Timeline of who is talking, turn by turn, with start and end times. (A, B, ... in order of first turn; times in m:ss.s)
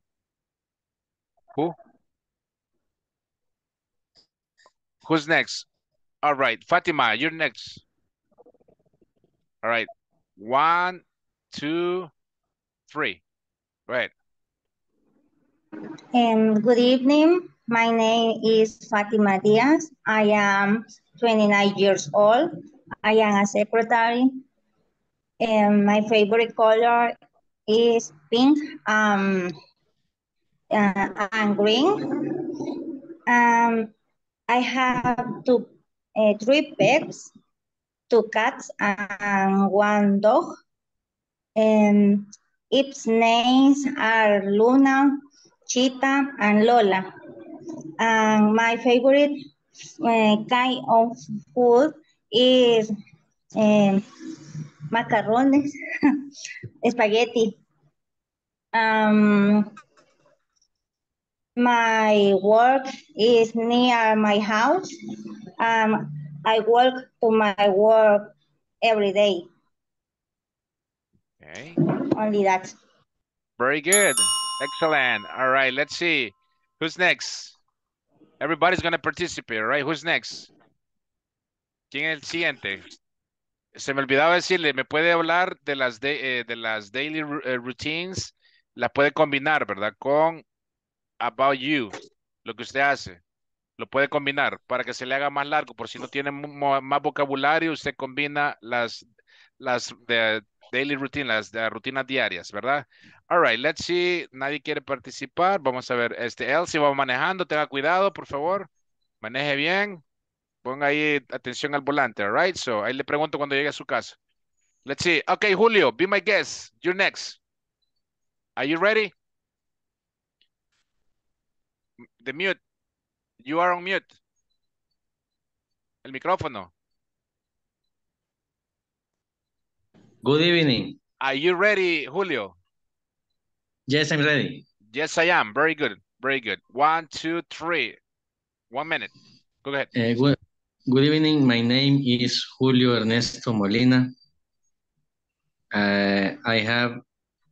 0:05.0-0:05.6 A
0:06.2-0:07.8 A
0:09.6-0:12.1 A
0:12.9-0:13.2 A
0:16.1-0:22.5 B
0:23.0-0:24.4 B
0:25.4-0:27.1 B
0:27.7-0:29.5 B
0:30.7-0:32.4 B
0:33.3-0:33.9 B
0:34.5-0:37.3 B
0:38.1-0:40.5 B
0:41.6-0:47.1 B
0:48.0-0:49.4 B
0:50.0-0:52.9 B
0:53.6-0:54.0 B
0:54.9-0:55.7 B
0:56.8-0:57.6 B
0:58.7-0:59.7 B
1:01.6-1:04.9 B
1:05.6-1:09.4 B
1:11.4-1:11.8 A
1:12.1-1:12.7 B
1:13.6-1:17.6 A
1:18.4-1:20.5 A
1:21.9-1:22.8 A
1:23.7-1:30.4 A
1:31.2-1:33.2 A
1:33.8-1:39.0 A
1:39.6-1:48.7 A
1:49.2-1:50.0 A
1:50.6-1:54.2 A
1:54.9-1:57.4 A
1:58.6-1:59.1 A
2:02.2-2:02.6 A
2:03.4-2:04.1 A
2:06.0-2:06.7 A
2:10.2-2:11.0 C
2:11.2-2:12.6 A
2:13.9-2:14.6 C
2:14.9-2:18.0 A
2:18.7-2:19.1 A
2:19.6-2:19.9 A
2:19.9-2:24.1 C
2:25.7-2:27.0 C